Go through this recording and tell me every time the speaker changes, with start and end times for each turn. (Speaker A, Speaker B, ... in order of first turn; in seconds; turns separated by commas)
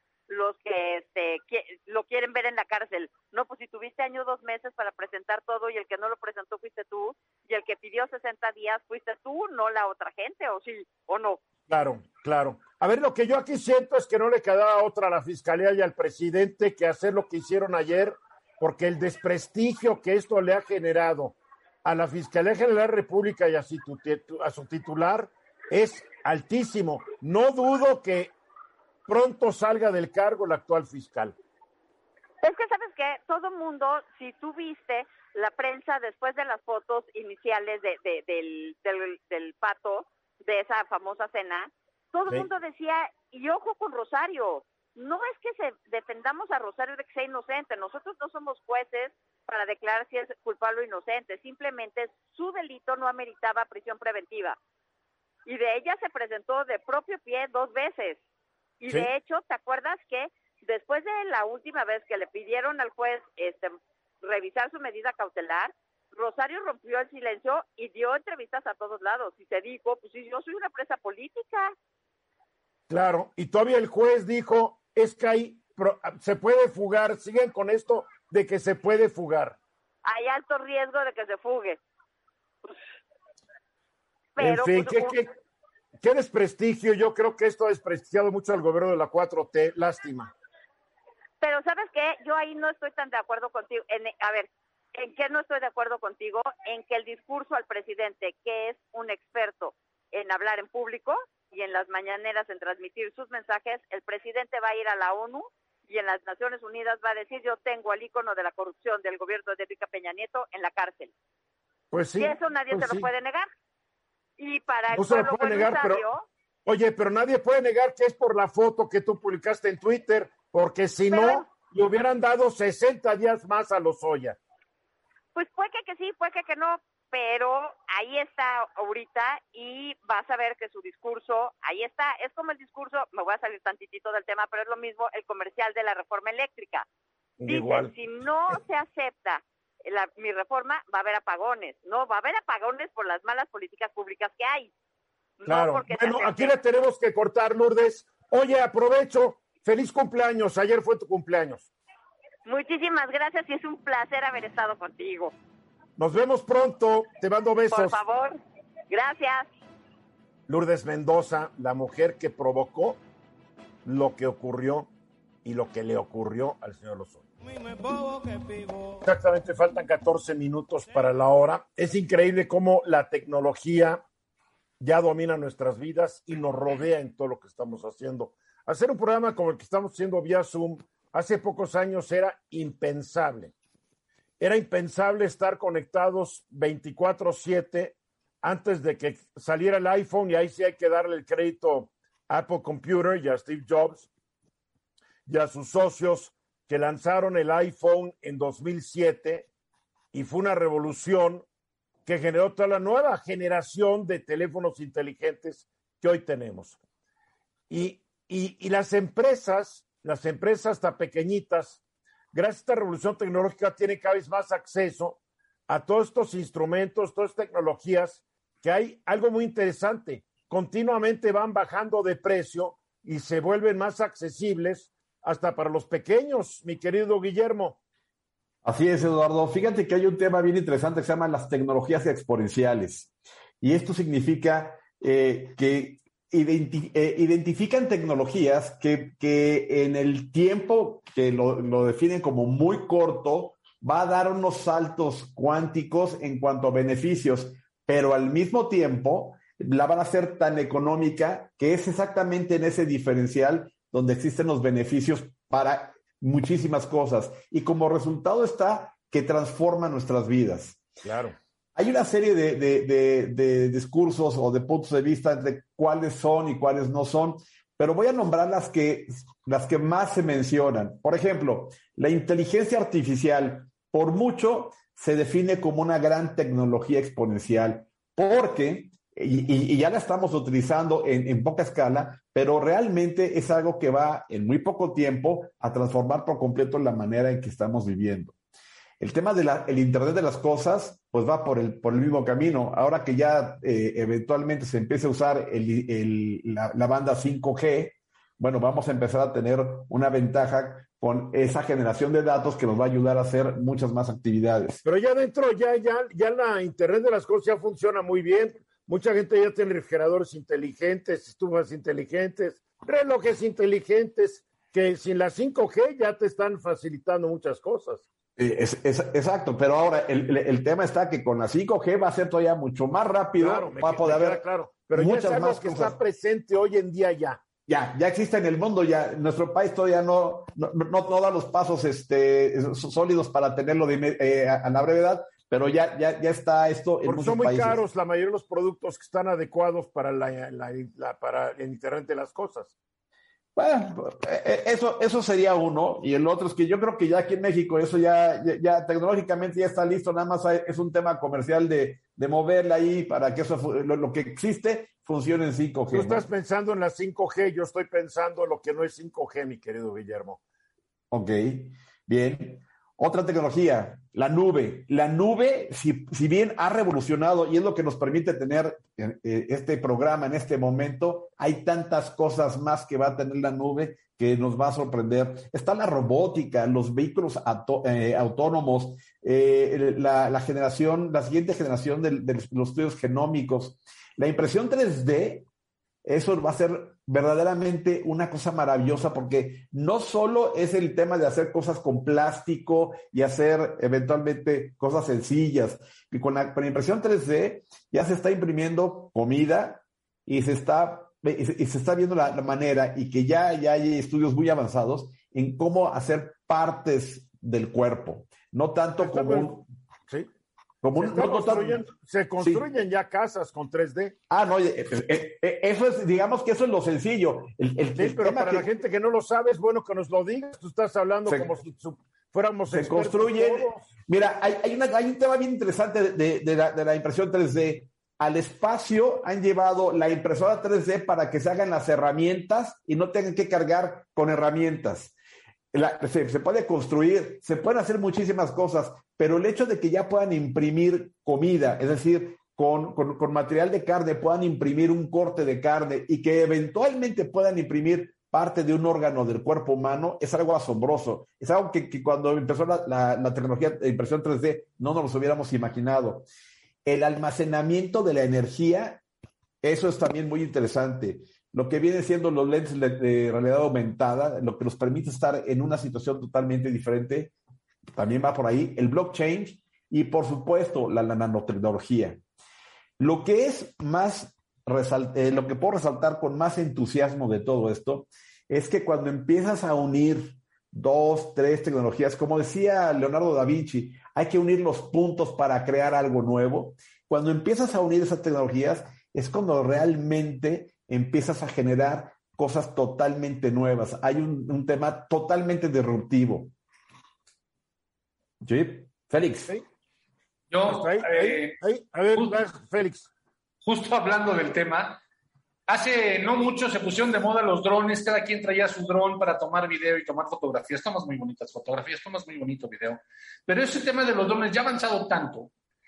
Speaker A: 0.3-11.4, Speaker B: 11.7-28.3, Speaker B: 29.1-31.3, Speaker A: 32.4-54.6, Speaker A: 55.5-58.2, Speaker A: 58.8-71.7, Speaker B: 72.9-79.6, Speaker A: 80.0-81.8, Speaker A: 84.4-85.2, Speaker B: 84.4-85.3, Speaker B: 86.0-90.3, Speaker A: 91.4-111.1, Speaker B: 111.9-113.1, Speaker A: 112.2-113.5, Speaker A: 114.4-116.3, Speaker B: 114.9-116.0, Speaker B: 116.7-124.4, Speaker A: 121.1-121.5, Speaker A: 125.3-136.9, Speaker B: 137.4-137.9, Speaker A: 137.5-144.7, Speaker A: 145.4-146.6, Speaker B: 145.5-151.7, Speaker A: 152.4-155.3, Speaker B: 156.0-158.0, Speaker A: 157.7-158.4, Speaker A: 158.9-159.5, Speaker B: 160.5-163.0, Speaker B: 163.8-164.9, Speaker B: 165.4-167.3, Speaker B: 169.0-174.0, Speaker B: 174.8-183.5, Speaker B: 184.4-194.1, Speaker B: 195.3-199.5, Speaker B: 200.1-201.4, Speaker B: 202.1-206.8, Speaker B: 207.7-211.8, Speaker B: 212.3-227.8, Speaker C: 228.6-260.8, Speaker B: 261.0-261.3, Speaker C: 261.7-288.4, Speaker C: 289.0-304.8, Speaker B: 304.8-318.0, Speaker C: 318.4-325.9, Speaker B: 323.4-327.4, Speaker C: 327.7-337.8, Speaker B: 337.1-342.7, Speaker C: 343.6-356.3, Speaker B: 355.9-360.4, Speaker C: 361.1-385.5, Speaker C: 386.1-409.7, Speaker B: 409.0-410.3, Speaker C: 410.8-411.8, Speaker B: 410.9-414.1, Speaker C: 412.4-412.6, Speaker C: 414.3-418.7, Speaker B: 418.0-423.9, Speaker C: 421.3-421.6, Speaker C: 422.7-435.1, Speaker C: 435.7-456.3, Speaker C: 456.8-459.0, Speaker C: 459.6-467.3, Speaker C: 467.9-472.2, Speaker C: 473.0-496.5, Speaker C: 498.4-499.5, Speaker D: 500.5-501.6, Speaker B: 500.7-503.1, Speaker D: 503.6-505.0, Speaker D: 505.7-515.5